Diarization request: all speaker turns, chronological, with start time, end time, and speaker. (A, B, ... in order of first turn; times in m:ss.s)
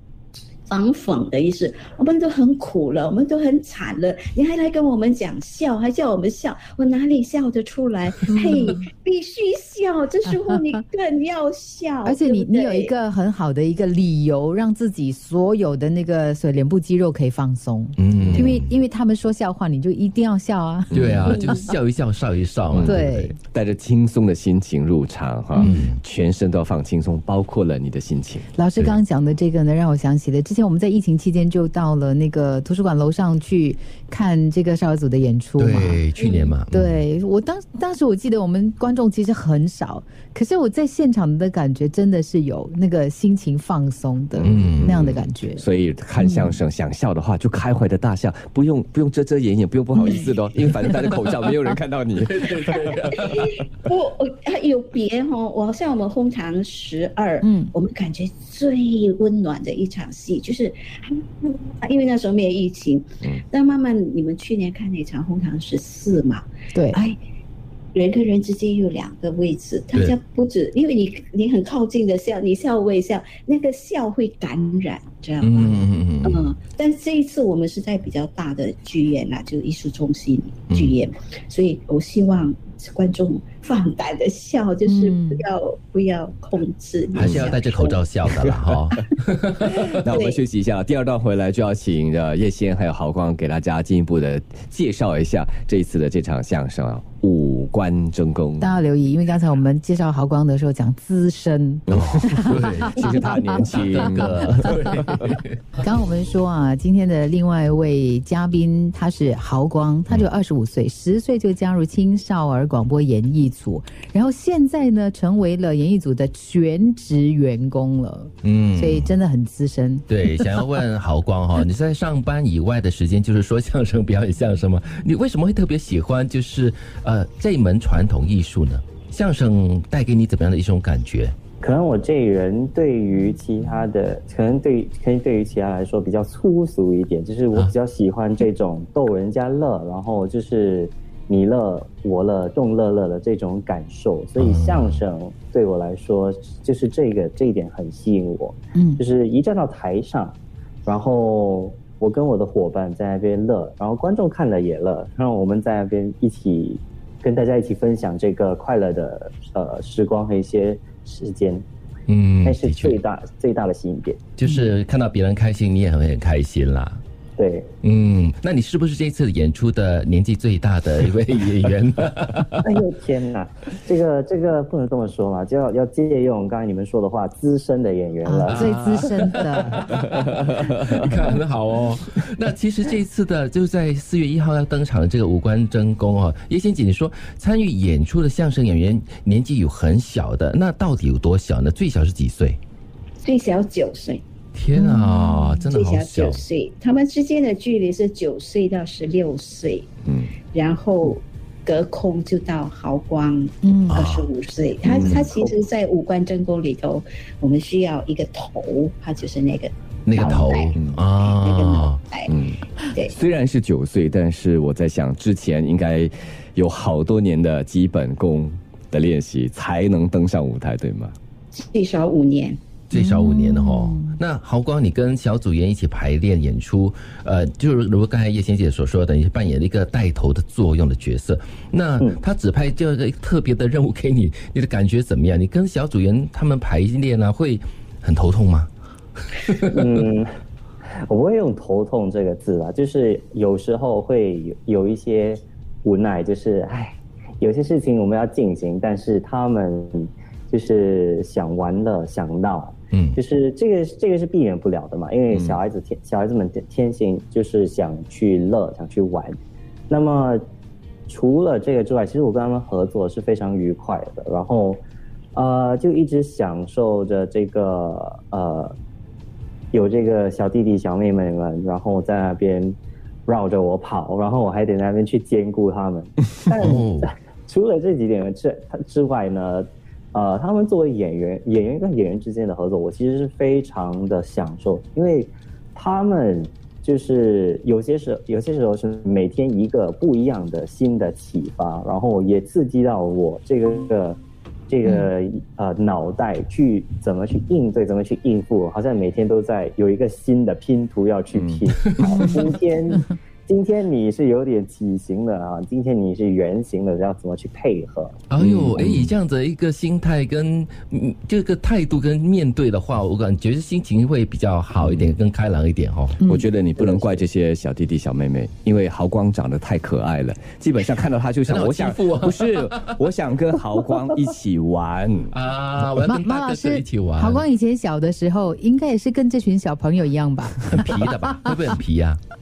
0:00.7-0:12.9 A
0:08.3-0:08.8 B
0:10.3-0:10.7 B
0:12.0-0:21.7 B
0:18.0-0:18.7 C
0:18.2-0:18.6 D
0:20.9-0:23.4 C
0:20.9-0:21.2 D
0:22.7-0:23.0 D
0:22.9-0:23.4 B
0:23.5-0:28.5 D
0:25.6-0:25.9 B
0:25.6-0:26.0 C
0:28.6-0:45.7 B
0:35.6-0:37.0 C
0:44.4-0:52.9 D
0:44.4-0:45.0 C
0:46.2-0:46.6 B
0:50.0-0:50.3 B
0:52.2-0:53.5 C
0:52.8-1:07.2 A
0:57.4-0:57.7 B
1:06.7-1:07.0 B
1:07.9-1:28.0 A
1:15.4-1:16.5 C
1:20.7-1:20.9 C
1:24.8-1:25.4 B
1:27.2-1:30.0 C
1:30.0-1:38.7 D
1:30.1-1:30.4 A
1:38.6-1:43.4 B
1:41.9-1:45.3 D
1:41.9-1:45.6 C
1:45.8-2:00.7 B
1:58.4-1:59.1 C
2:00.1-2:11.4 C
2:11.6-2:41.6 E
2:24.4-2:25.0 C
2:28.8-2:29.0 B
2:42.1-2:43.0 C
2:42.4-2:44.2 E
2:44.4-2:47.0 C
2:47.4-2:47.7 E
2:47.8-2:52.6 C
2:52.6-2:59.0 E
2:58.2-2:59.8 B
2:58.5-3:12.6 C
2:59.9-3:00.9 D
3:13.2-3:14.2 A
3:14.5-3:16.4 C
3:14.8-3:15.7 B
3:15.7-3:19.9 A
3:20.1-3:20.3 D
3:20.5-3:32.3 A
3:23.6-3:24.0 B
3:23.9-3:24.3 C
3:24.9-3:25.5 D
3:30.1-3:32.0 C
3:32.3-3:41.2 D
3:41.5-3:42.6 A
3:42.9-3:58.7 C
3:42.9-3:44.2 B
3:59.6-4:00.3 E
4:01.0-4:19.4 E
4:12.9-4:13.2 C
4:15.3-4:15.6 D
4:19.9-4:20.4 E
4:21.1-4:24.8 E
4:25.4-4:28.8 E
4:29.7-4:32.8 E
4:33.3-5:08.2 E
4:36.6-4:37.1 C
5:01.3-5:02.5 D
5:08.3-5:16.2 C
5:08.4-5:09.1 D
5:14.8-5:15.2 D
5:16.2-5:16.5 B
5:16.3-5:25.3 D
5:16.8-5:17.2 E
5:21.5-5:22.9 C
5:25.3-5:27.4 C
5:26.0-5:31.8 B
5:30.7-5:32.2 C